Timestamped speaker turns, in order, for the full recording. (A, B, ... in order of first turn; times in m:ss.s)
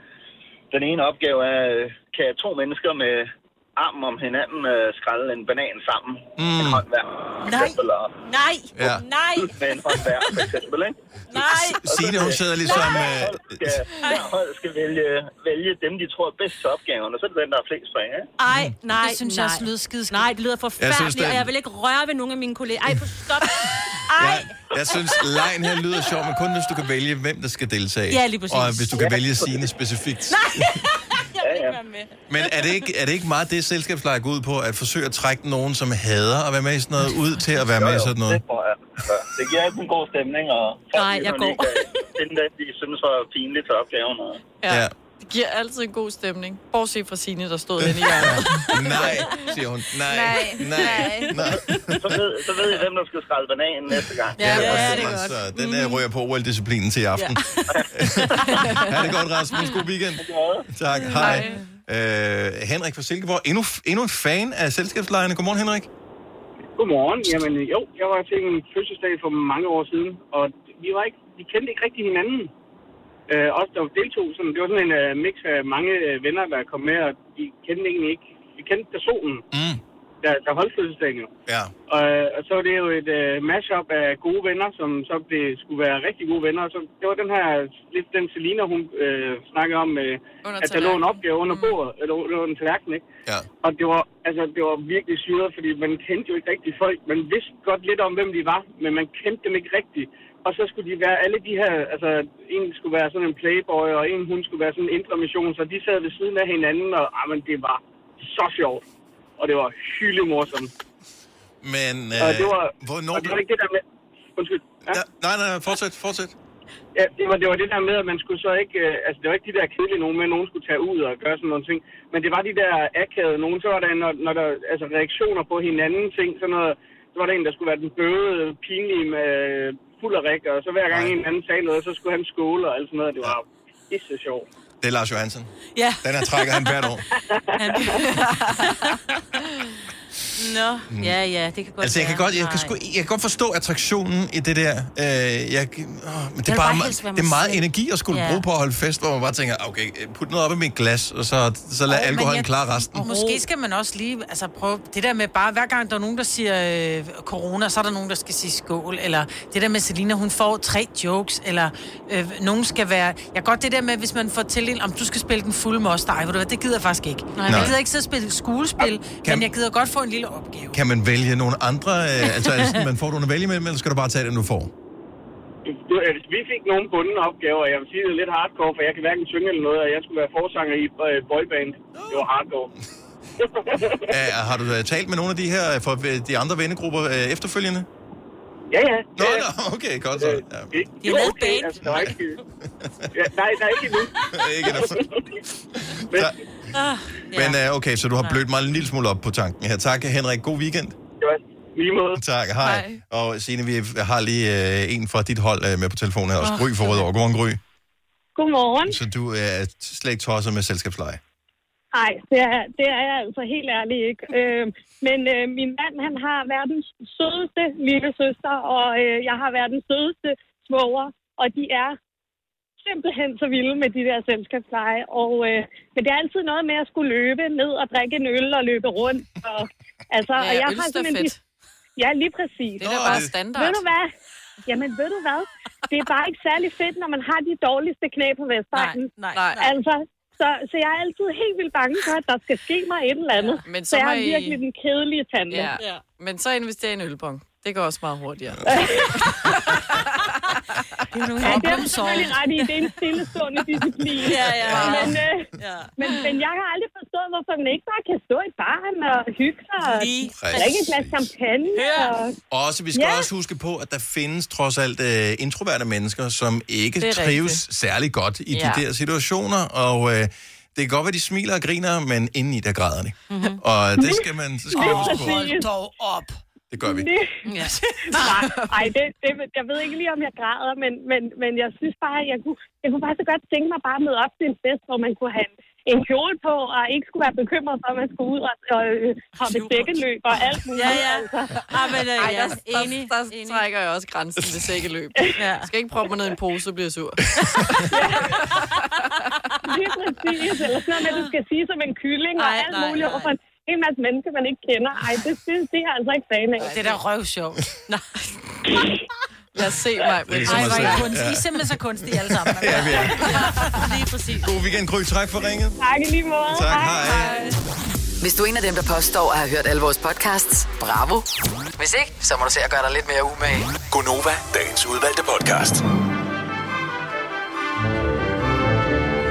0:00.7-0:08.1 A
0:06.4-0:06.8 B
0:07.4-0:09.5 C
0:08.8-0:09.1 B
0:09.5-0:11.0 A
0:11.3-0:11.8 C
0:11.3-0:13.7 B
0:11.8-0:18.3 A
0:12.6-0:13.1 C
0:14.0-0:14.3 C
0:18.4-0:25.3 C
0:18.9-0:20.3 D
0:20.8-0:21.5 B
0:24.2-0:30.8 B
0:28.1-0:29.1 C
0:29.0-0:29.7 A
0:30.3-0:32.1 C
0:31.4-0:31.8 A
0:32.3-0:38.4 B
0:37.7-0:44.4 A
0:40.9-0:42.1 C
0:44.6-0:49.1 E
0:44.7-0:44.9 B
0:47.8-0:52.2 B
0:50.1-0:51.3 E
0:50.8-0:51.3 C
0:52.0-0:54.9 A
0:54.4-1:05.9 B
0:54.4-0:56.0 C
0:54.5-0:55.3 D
0:57.4-0:57.6 C
0:58.2-0:58.9 C
0:58.5-0:58.8 E
1:00.2-1:00.6 A
1:01.2-1:01.6 C
1:06.8-1:12.5 F
1:13.3-1:19.4 F
1:19.5-1:19.8 B
1:20.2-1:21.3 F
1:21.5-1:21.7 B
1:21.9-1:33.0 F
1:30.4-1:31.8 E
1:33.6-1:48.8 F
1:49.4-1:50.7 F
1:51.6-1:53.4 B
1:52.2-1:53.8 F
1:54.4-1:55.0 F
1:54.9-1:56.3 B
1:57.0-2:14.5 F
2:10.9-2:11.2 B
2:14.8-2:17.0 B
2:15.8-2:16.7 C
2:17.5-2:18.0 F
2:17.6-2:19.2 C
2:18.1-2:18.4 E
2:20.4-2:22.8 C
2:21.8-2:33.1 B
2:26.5-2:28.4 C
2:31.9-2:50.8 D
2:33.0-2:33.4 C
2:47.5-2:47.8 B
2:50.7-2:54.7 B
2:55.7-3:02.7 F
3:01.9-3:02.3 B
3:03.4-3:04.1 F
3:04.1-3:07.9 B
3:08.7-3:09.5 F
3:09.2-3:10.8 B
3:10.2-3:12.4 F
3:11.0-3:11.8 C
3:11.8-3:12.2 B
3:12.7-3:13.1 B
3:13.2-3:14.1 F
3:14.3-3:16.4 B
3:14.6-3:15.2 F
3:16.7-3:17.6 C
3:17.3-3:21.0 B
3:21.2-3:22.2 F
3:22.2-3:27.6 B
3:22.6-3:23.0 E
3:26.4-3:27.0 C
3:28.4-3:29.0 G
3:28.8-3:31.2 B
3:31.9-3:42.0 G
3:42.8-3:51.3 G
3:50.4-3:51.4 E
3:52.0-3:54.1 G
3:52.8-3:53.3 B
3:52.8-3:53.9 E
3:54.7-4:05.8 G
3:58.7-3:59.7 C
3:59.3-3:59.7 E
4:03.6-4:04.6 E
4:05.5-4:08.6 E
4:05.8-4:06.0 C
4:08.6-4:09.2 G
4:09.2-4:10.8 E
4:11.1-4:12.4 D
4:11.4-4:12.3 C
4:11.4-4:22.4 G
4:14.2-4:15.9 C
4:14.6-4:15.2 E
4:19.8-4:20.9 C
4:20.4-4:21.3 B
4:21.7-4:22.1 C
4:22.5-4:35.6 B
4:22.9-4:23.3 G
4:27.0-4:27.6 E
4:28.5-4:28.8 E
4:33.3-4:33.6 C
4:34.0-4:35.7 G
4:34.8-4:36.4 D
4:36.7-4:37.1 B
4:36.8-4:37.4 G
4:37.4-4:38.4 C
4:38.1-4:51.6 G
4:49.4-4:53.6 C
4:51.7-4:59.3 E
4:55.4-4:55.7 C
4:57.9-4:58.4 G
4:58.4-4:59.7 C
4:59.6-5:06.7 G
5:01.0-5:01.4 C
5:02.4-5:03.3 C
5:06.6-5:07.6 D
5:06.6-5:07.0 E
5:09.6-5:11.1 E
5:10.3-5:13.3 B
5:10.5-5:13.9 D
5:13.7-5:14.5 C
5:14.4-5:15.8 B
5:15.8-5:17.1 G
5:16.5-5:17.4 B
5:18.2-5:21.3 H
5:21.8-5:23.8 H
5:23.8-5:25.8 I